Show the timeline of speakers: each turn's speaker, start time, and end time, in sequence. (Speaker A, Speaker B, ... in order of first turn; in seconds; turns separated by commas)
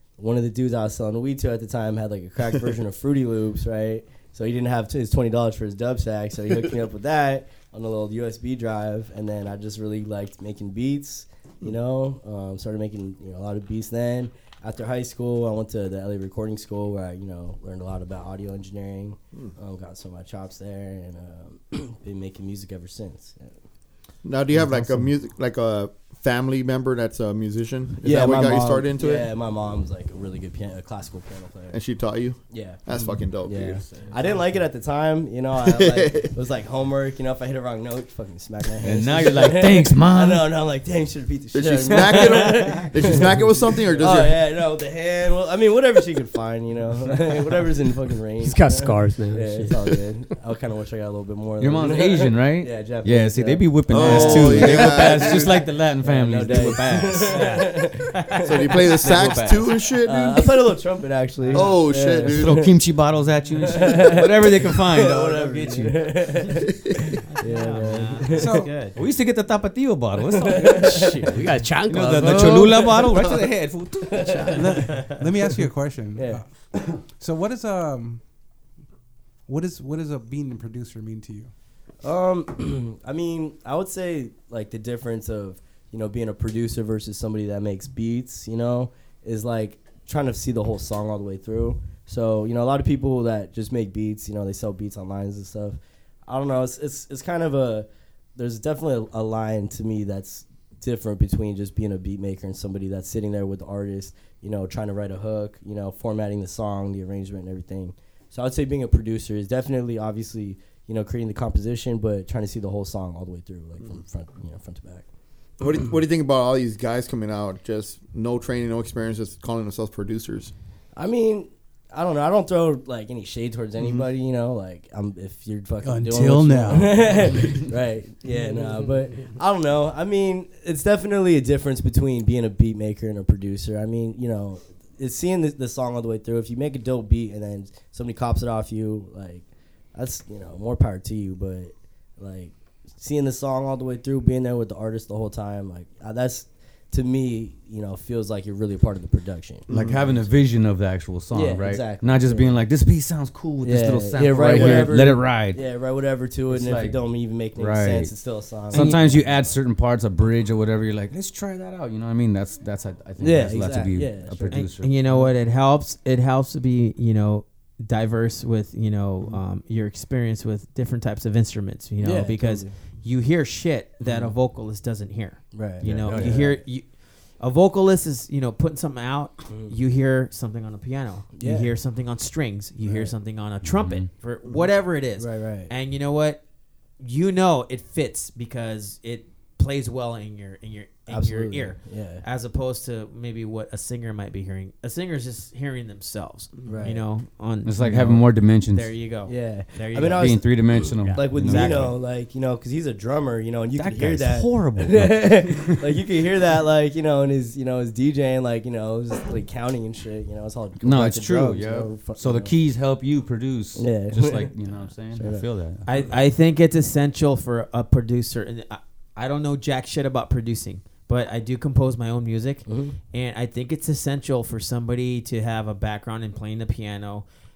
Speaker A: 0.2-23.6, Speaker B: 24.2-29.3, Speaker A: 28.0-31.8, Speaker B: 31.7-34.0, Speaker A: 32.5-43.5, Speaker B: 35.6-36.3, Speaker C: 38.8-40.5, Speaker B: 41.5-44.4, Speaker D: 42.2-42.8, Speaker A: 44.0-59.4, Speaker E: 48.4-49.9, Speaker C: 51.6-57.4, Speaker B: 53.9-55.6, Speaker D: 57.2-58.5, Speaker B: 58.4-60.5, Speaker C: 59.0-59.6, Speaker A: 60.0-62.7, Speaker B: 61.5-62.7, Speaker C: 62.4-66.0, Speaker A: 63.7-68.6, Speaker D: 67.2-69.0, Speaker F: 68.3-68.7, Speaker C: 68.9-70.8, Speaker A: 70.3-71.3, Speaker E: 70.5-73.1, Speaker C: 71.8-74.5, Speaker A: 72.2-72.6, Speaker A: 74.1-74.7, Speaker F: 74.5-78.2, Speaker A: 76.2-76.4, Speaker F: 79.5-81.5, Speaker A: 82.0-115.0, Speaker B: 115.6-120.5, Speaker A: 121.0-149.7, Speaker F: 125.8-127.2, Speaker B: 149.7-150.0, Speaker C: 149.7-155.6, Speaker A: 151.3-152.6, Speaker A: 153.6-159.6, Speaker B: 154.5-154.9, Speaker C: 156.5-157.0, Speaker C: 157.5-158.1, Speaker C: 158.7-165.0, Speaker A: 163.2-165.3, Speaker D: 164.5-176.8, Speaker A: 172.0-172.7, Speaker C: 174.0-174.3, Speaker A: 175.5-176.6, Speaker C: 176.0-176.3, Speaker D: 177.4-186.4, Speaker A: 179.5-179.7, Speaker A: 181.3-181.7, Speaker A: 182.8-183.1, Speaker C: 183.6-184.1, Speaker A: 185.2-185.7, Speaker D: 187.0-198.2, Speaker A: 191.1-192.2, Speaker A: 196.6-197.0, Speaker C: 197.6-198.9, Speaker A: 197.9-198.2, Speaker D: 198.7-201.9, Speaker A: 199.2-212.5, Speaker C: 200.2-201.9, Speaker C: 203.8-205.8, Speaker C: 210.8-215.8, Speaker A: 213.8-214.5, Speaker A: 215.1-215.4, Speaker D: 215.8-227.2, Speaker A: 222.7-222.9